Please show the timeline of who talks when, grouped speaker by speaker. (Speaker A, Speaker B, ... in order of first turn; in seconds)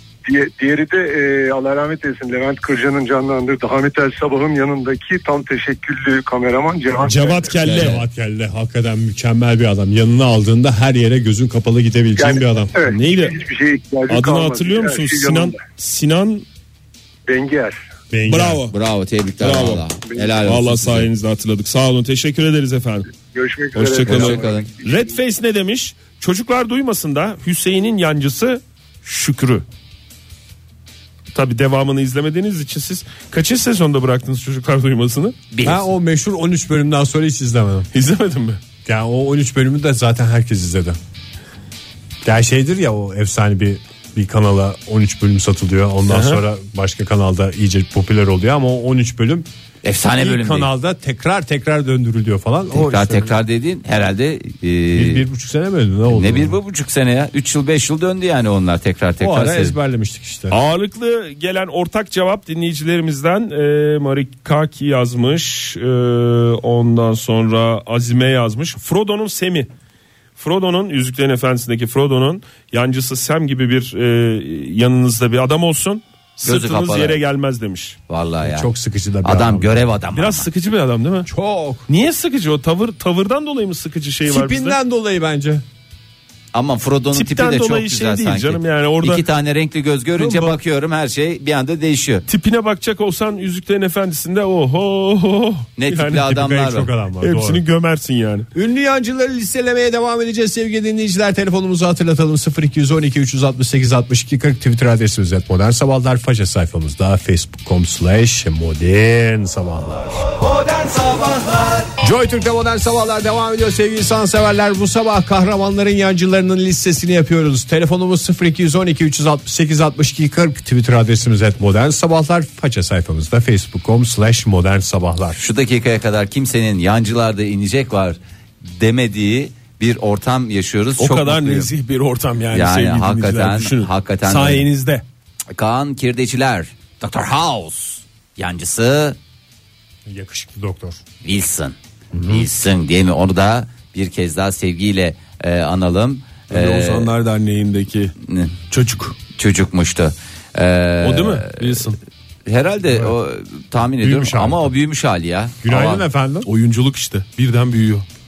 Speaker A: 0.2-7.6, 12.2-15.6, 17.3-17.8, 23.3-25.2
Speaker B: 7.0-8.0, 12.9-13.4, 14.1-16.4, 18.3-18.7, 19.4-19.8, 20.4-23.1, 23.7-29.6, 31.3-35.3, 37.9-38.6, 46.1-46.4, 60.5-69.7, 70.4-78.0, 80.1-81.3, 81.9-84.8, 87.1-89.2, 92.3-96.3, 97.2-98.5, 131.0-135.0, 146.5-148.1, 148.7-149.2, 151.0-152.0, 156.4-158.0
Speaker C: 7.6-8.0, 18.7-21.1, 24.1-24.7, 35.5-35.9, 49.8-50.7, 52.7-55.2, 56.1-59.8, 76.4-77.2, 78.1-78.7, 79.2-80.5, 86.5-92.2, 95.8-96.9, 110.5-111.8, 125.3-131.7, 132.5-134.7, 135.5-139.2, 141.2-141.8, 142.3-147.1, 148.2-148.5, 149.3-151.8, 152.4-156.0
Speaker D: 7.6-12.7, 18.1-18.6, 35.6-37.9, 38.8-41.0, 42.2-49.5, 50.1-53.3, 54.9-56.6, 59.2-60.6, 78.4-79.9, 81.2-81.9, 84.2-85.6, 90.2-90.6, 96.2-97.6, 98.5-110.2, 112.0-125.4, 140.1-141.0, 142.1-142.5, 152.9-153.2, 154.0-154.8, 155.6-156.5